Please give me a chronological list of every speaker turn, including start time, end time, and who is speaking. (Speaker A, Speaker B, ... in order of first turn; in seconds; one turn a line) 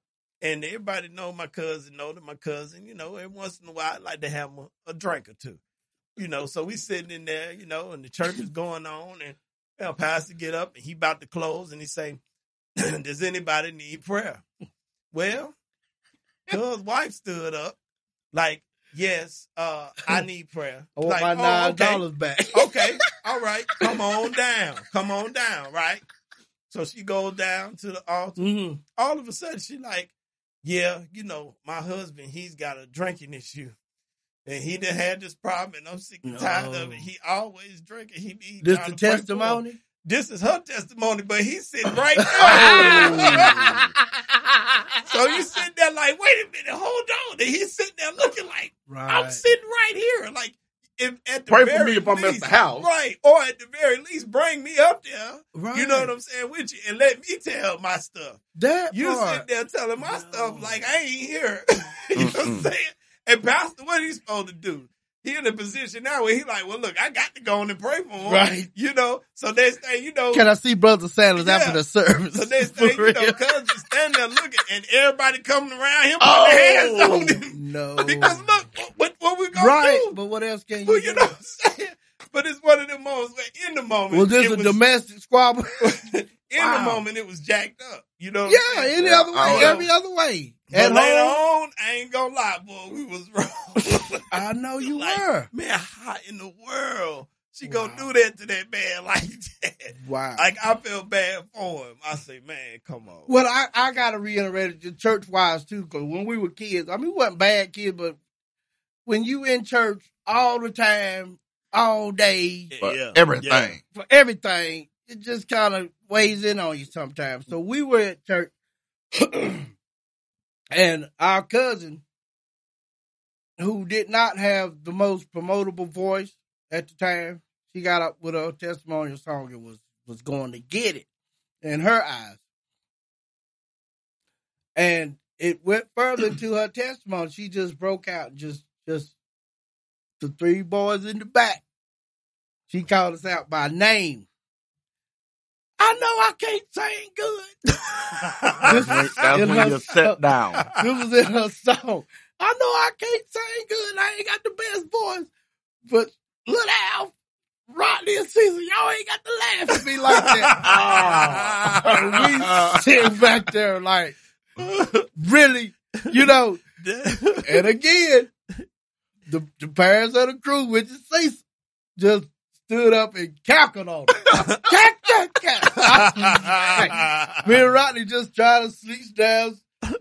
Speaker A: 0.4-5.6
Speaker A: 6.2-12.2
Speaker A: 12.8-14.4
Speaker A: 15.1-15.5
Speaker A: 16.5-17.8
Speaker A: 18.3-26.0
Speaker B: 21.0-22.8
Speaker A: 26.7-30.1
Speaker B: 28.4-28.8
Speaker A: 30.6-33.7
Speaker A: 34.5-43.8
Speaker B: 36.2-37.0
Speaker B: 38.6-39.8
Speaker B: 42.2-43.8
Speaker C: 42.4-43.8
Speaker A: 45.0-58.4
Speaker B: 48.9-49.4
Speaker C: 51.5-52.9
Speaker B: 55.5-56.1
Speaker B: 58.6-59.4
Speaker A: 58.9-70.5
Speaker B: 60.0-60.8
Speaker C: 62.2-62.7
Speaker B: 68.3-68.7
Speaker B: 70.3-73.4
Speaker A: 71.4-71.8
Speaker A: 72.3-80.2
Speaker C: 76.2-77.4
Speaker B: 77.5-78.5
Speaker B: 79.5-81.3
Speaker A: 80.9-84.8
Speaker B: 84.1-86.0
Speaker A: 85.8-89.9
Speaker B: 86.6-87.0
Speaker B: 88.5-91.4
Speaker C: 89.0-89.8
Speaker A: 90.7-94.2
Speaker B: 94.3-95.5
Speaker A: 94.8-103.3
Speaker B: 97.7-98.1
Speaker B: 100.0-100.5
Speaker B: 103.3-108.2
Speaker B: 109.1-112.7
Speaker A: 112.7-113.8
Speaker C: 112.8-113.8
Speaker B: 113.9-118.5
Speaker B: 119.2-119.7
Speaker B: 120.7-122.0
Speaker B: 123.6-131.1
Speaker B: 131.6-132.4
Speaker B: 134.8-139.2
Speaker B: 140.2-141.6
Speaker B: 142.7-144.3
Speaker B: 145.8-147.6
Speaker A: 148.1-149.6
Speaker B: 148.6-150.2
Speaker C: 148.6-150.7
Speaker B: 150.8-155.3
Speaker B: 155.9-157.1
Speaker B: 157.7-160.6
Speaker A: 160.1-161.9
Speaker C: 160.6-162.9
Speaker B: 161.8-164.2
Speaker A: 164.6-165.1
Speaker B: 165.2-166.6
Speaker A: 166.8-167.7
Speaker B: 167.4-168.3
Speaker B: 169.3-171.4
Speaker B: 172.0-179.6
Speaker A: 174.3-174.6
Speaker A: 175.8-177.5